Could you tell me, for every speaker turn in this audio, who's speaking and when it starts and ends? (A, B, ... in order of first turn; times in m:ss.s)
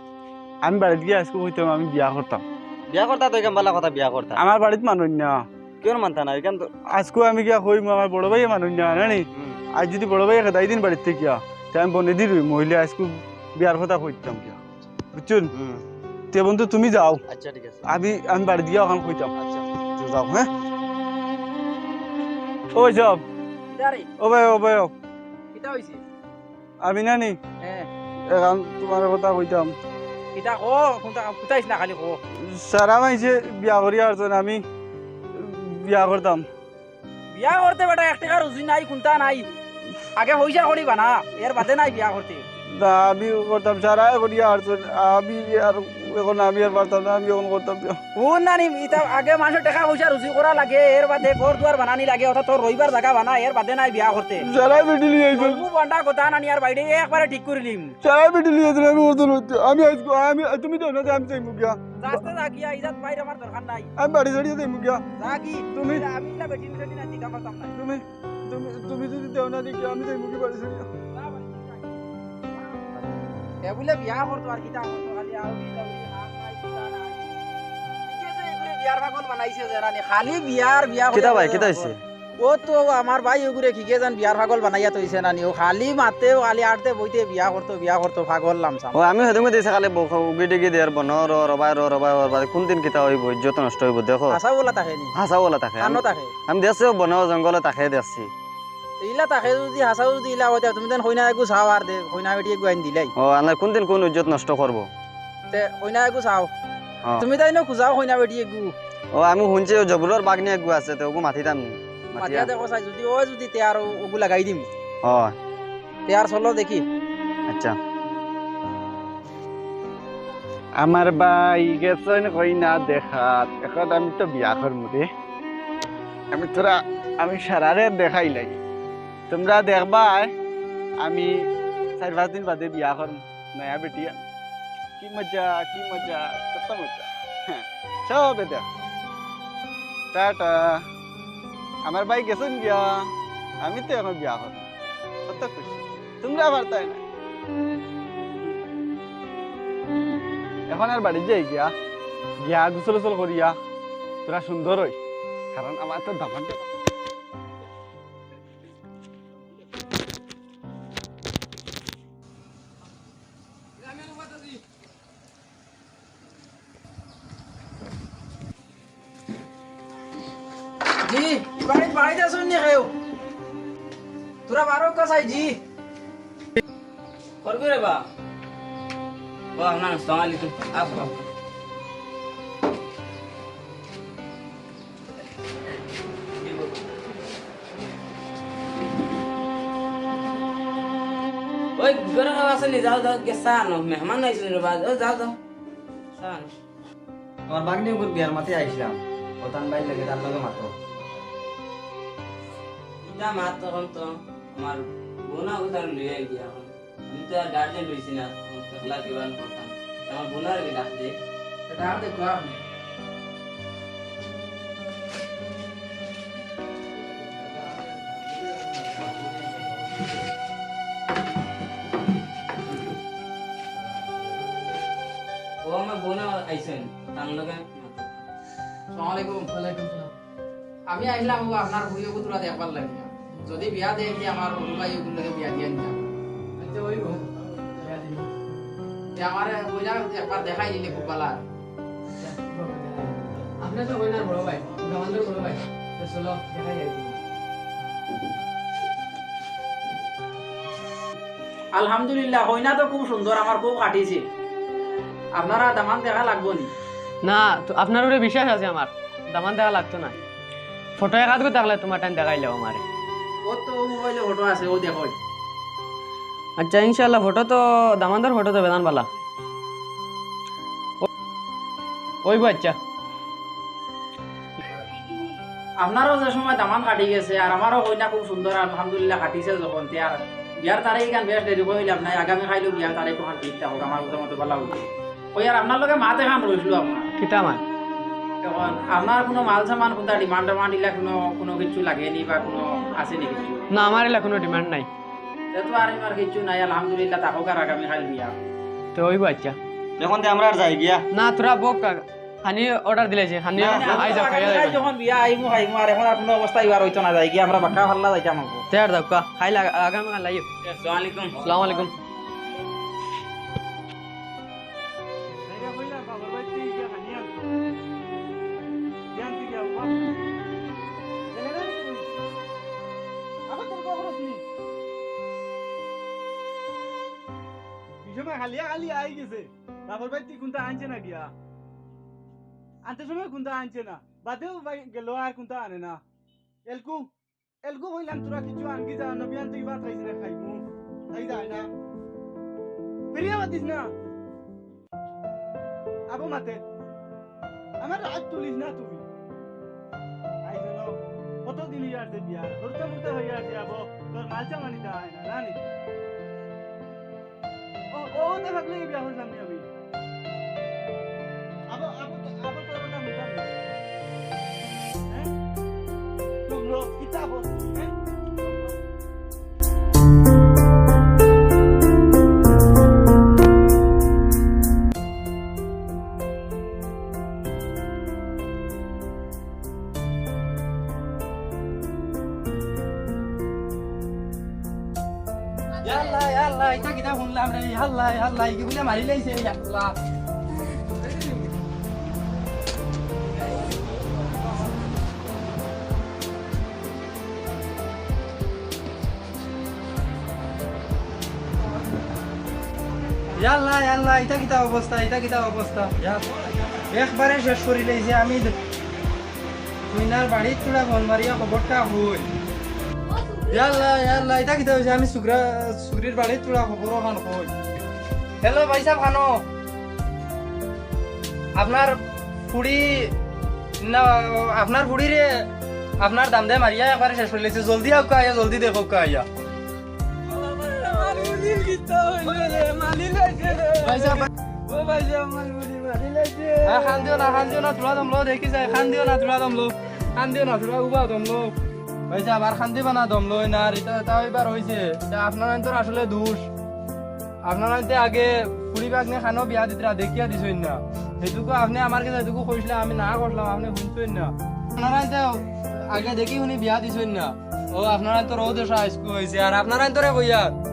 0:00.6-0:02.4 A
0:02.9-0:04.4 B
0:04.4-0:05.4 A
0:05.8-0:06.7 B
0:06.9-0:14.6 A
0:09.3-0:09.6 B
0:15.1-0:15.5 A
0:15.5-0:15.8 B
0:16.3-0:17.2 A
0:17.3-0:17.8 B
0:17.8-0:19.3 A
0:20.0-0:20.5 A
0:22.7-0:23.2 A
0:23.7-0:24.1 C
0:24.2-0:24.9 A
0:25.5-0:26.0 C
0:26.8-0:27.4 A
0:28.3-0:29.7 A
0:30.3-0:32.2 C
0:32.4-0:34.6 A
0:35.4-0:36.4 A
0:37.3-0:39.4 C
0:40.2-0:42.4 C
0:42.8-0:48.0 A
0:48.2-0:54.5 C
0:54.4-0:55.6 A
0:55.3-0:58.0 C
0:58.0-1:02.3 A
1:02.0-1:03.9 C
1:04.0-1:05.0 A
1:05.2-1:07.7 C
1:05.7-1:06.0 A
1:07.8-1:10.9 A
1:11.1-1:12.0 C
1:12.5-1:12.9 C
1:13.6-1:17.2 C
1:18.1-1:28.9 C
1:21.1-1:22.0 B
1:28.9-1:34.4 B
1:34.3-1:35.1 C
1:35.2-1:38.3 B
1:35.8-1:36.3 C
1:39.0-1:43.1 C
1:43.2-1:44.9 B
1:45.5-1:46.5 C
1:47.2-1:48.7 C
1:49.1-1:52.5 B
1:52.2-1:54.6 C
1:55.0-1:55.4 B
1:56.1-1:56.8 C
1:57.5-1:57.8 B
2:00.8-2:05.0 A
2:06.3-2:08.6 A
2:09.3-2:10.3 A
2:11.0-2:11.3 A
2:12.0-2:14.2 A
2:15.0-2:18.6 A
2:20.1-2:20.8 A
2:21.8-2:22.9 A
2:23.6-2:24.7 A
2:25.3-2:27.0 A
2:30.7-2:31.7 A
2:32.4-2:33.6 A
2:34.2-2:35.0 A
2:35.6-2:36.6 A
2:51.0-2:52.9 C
2:54.5-2:55.6 C
2:57.4-2:58.0 D
2:59.6-3:01.2 D
3:06.4-3:06.8 D
3:11.8-3:15.4 D
3:16.1-3:16.5 D
3:17.5-3:20.7 B
3:23.0-3:31.1 D
3:31.7-3:32.6 C
3:45.6-3:48.2 D
3:48.9-3:49.5 C
3:49.5-3:50.1 E
3:50.9-3:56.1 C
3:56.6-3:58.3 E
3:59.2-4:01.4 C
4:02.2-4:07.2 E
4:11.7-4:14.2 C
4:15.3-4:16.7 C
4:17.2-4:20.2 E
4:21.0-4:22.8 E
4:23.4-4:25.1 C
4:26.6-4:29.1 E
4:32.2-4:32.8 E
4:35.8-4:44.8 C
4:45.3-4:47.1 C
4:47.2-4:47.6 E
4:48.4-4:53.6 C
4:53.7-4:54.9 E
4:55.5-4:58.3 C
4:58.9-4:59.6 E
5:00.0-5:01.0 B
5:01.1-5:04.8 E
5:03.6-5:04.0 B
5:03.6-5:08.6 C
5:08.7-5:10.4 E
5:10.6-5:11.5 D
5:11.4-5:11.9 E
5:15.5-5:17.4 A
5:19.1-5:20.0 A
5:21.3-5:22.1 A
5:23.5-5:24.4 A
5:28.0-5:31.3 A
5:32.8-5:36.0 A
5:36.7-5:37.1 A
5:37.6-5:41.7 A
5:43.1-5:43.9 A
5:46.1-5:46.6 A
5:47.8-5:49.0 A
5:50.4-5:55.6 A
5:57.9-5:59.7 A
6:01.7-6:03.5 A
6:06.4-6:08.7 A
6:25.8-6:29.9 F
6:43.4-6:46.2 F
6:46.9-6:48.5 F
6:49.9-6:52.3 F
6:53.3-6:57.5 F
6:58.4-6:59.4 F
7:01.6-7:02.0 F
7:02.5-7:03.1 F
7:03.8-7:05.4 F
7:06.0-7:09.2 F
7:11.9-7:12.6 F
7:13.8-7:14.3 F
7:15.7-7:16.4 E
7:16.6-7:21.5 F
7:22.1-7:26.5 F
7:27.4-7:40.5 F